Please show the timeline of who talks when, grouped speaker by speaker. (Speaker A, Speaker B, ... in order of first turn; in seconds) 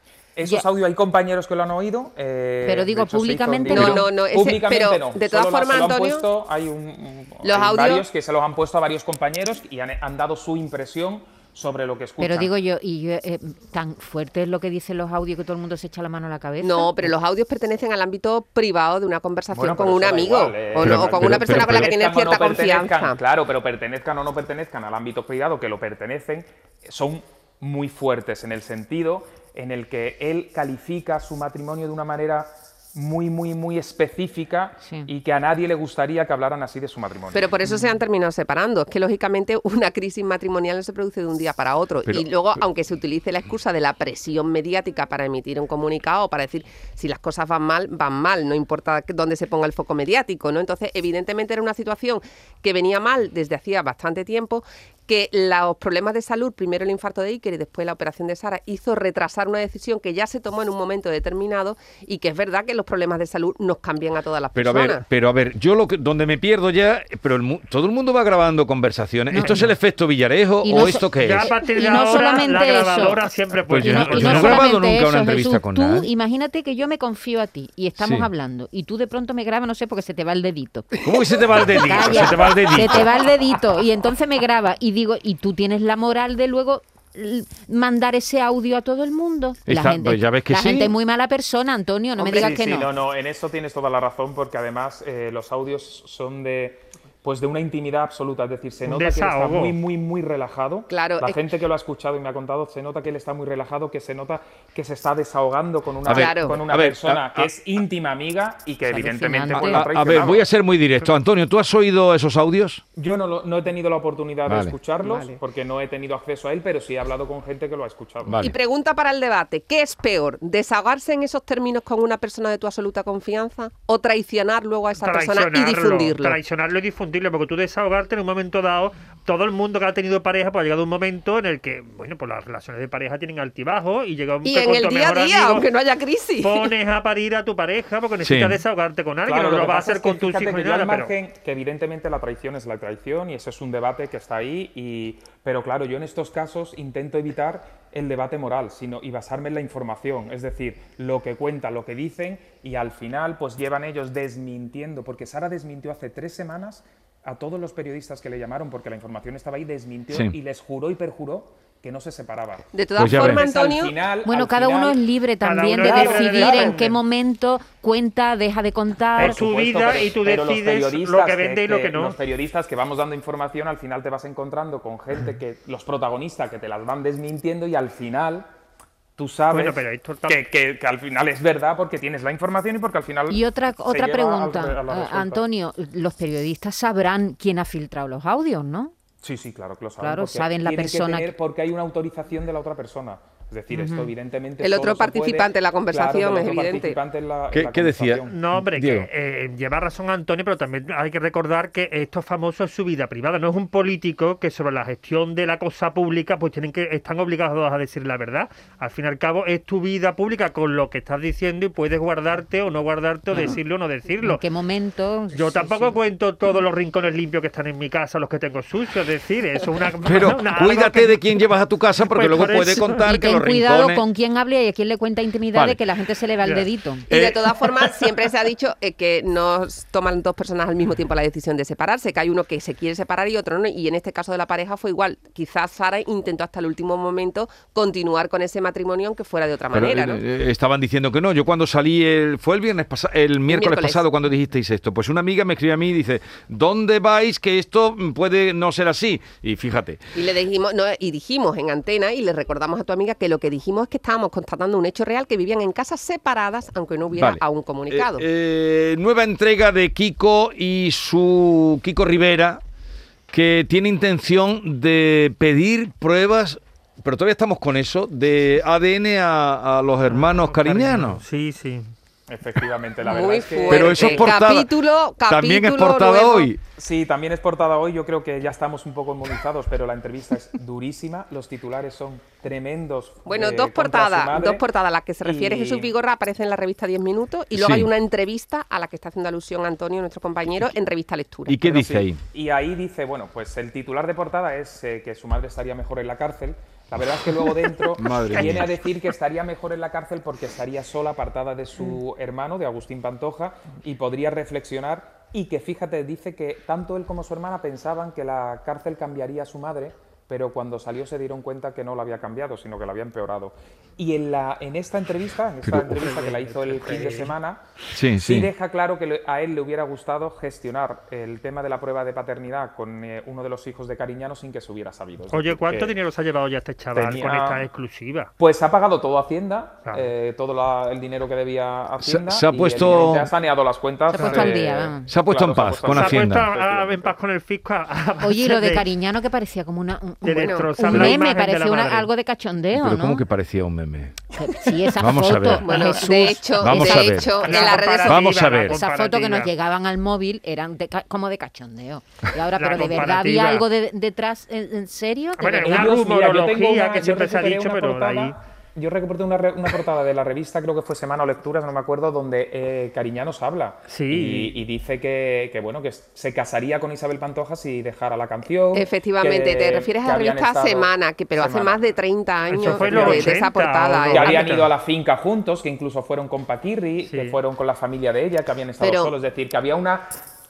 Speaker A: 0.4-12.5, 19.5-37.5, 92.2-110.5, 113.0-118.5, 139.3-165.0, 169.2-178.5, 179.2-185.4, 189.2-198.4, 272.3-274.3, 276.8-284.6, 285.2-285.9, 291.7-317.6, 318.2-325.9, 326.9-327.6, 328.4-337.1, 355.6-371.8, 372.6-373.3, 374.1-380.1
Speaker B: 2.6-4.1, 12.2-17.1, 69.3-69.6, 70.6-73.2, 73.8-81.0, 81.7-92.9, 108.9-109.8, 115.0-115.4, 164.3-169.4, 183.3-188.9, 190.0-191.3, 193.7-194.1, 214.2-216.0, 223.0-227.1, 334.1-335.1, 338.2-343.2, 344.3-347.4, 348.7-355.9
Speaker C: 3.7-6.3, 7.4-8.1, 16.6-23.2, 37.3-65.0, 92.2-92.6, 100.9-101.4, 106.1-106.6, 118.4-126.4, 134.4-136.7, 162.7-163.9, 194.6-197.0, 227.1-240.2, 243.5-244.0, 250.2-258.3, 273.0-276.5, 283.3-291.7, 340.3-340.7, 345.6-348.3, 368.7-374.6, 378.8-379.1
Speaker D: 20.8-21.9, 64.5-71.5, 73.7-76.1, 78.0-78.3, 81.0-83.2, 89.7-90.9, 106.1-107.5, 109.5-112.8, 114.5-114.8, 118.2-118.6, 138.2-138.6, 163.0-163.4, 197.5-199.1, 220.1-224.0, 225.5-225.8, 227.1-227.9, 239.7-250.0, 257.1-262.6, 263.3-271.2, 273.7-276.6, 287.6-287.9, 291.5-292.2, 298.0-298.7, 315.6-316.1, 317.9-318.5, 332.0-333.3, 335.1-336.5, 342.7-344.2, 345.0-345.9, 346.6-348.8
Speaker E: 71.1-74.7, 98.8-99.8, 125.0-135.7, 136.4-141.1, 165.4-167.0, 169.2-172.2, 179.5-180.4, 198.3-214.4, 215.3-221.2, 222.0-223.1, 270.1-271.9, 316.0-317.3, 325.3-328.3, 335.9-338.9, 340.2-342.1, 347.4-349.5, 352.6-353.7, 355.4-358.4, 363.9-364.6, 372.5-374.7, 377.1-377.4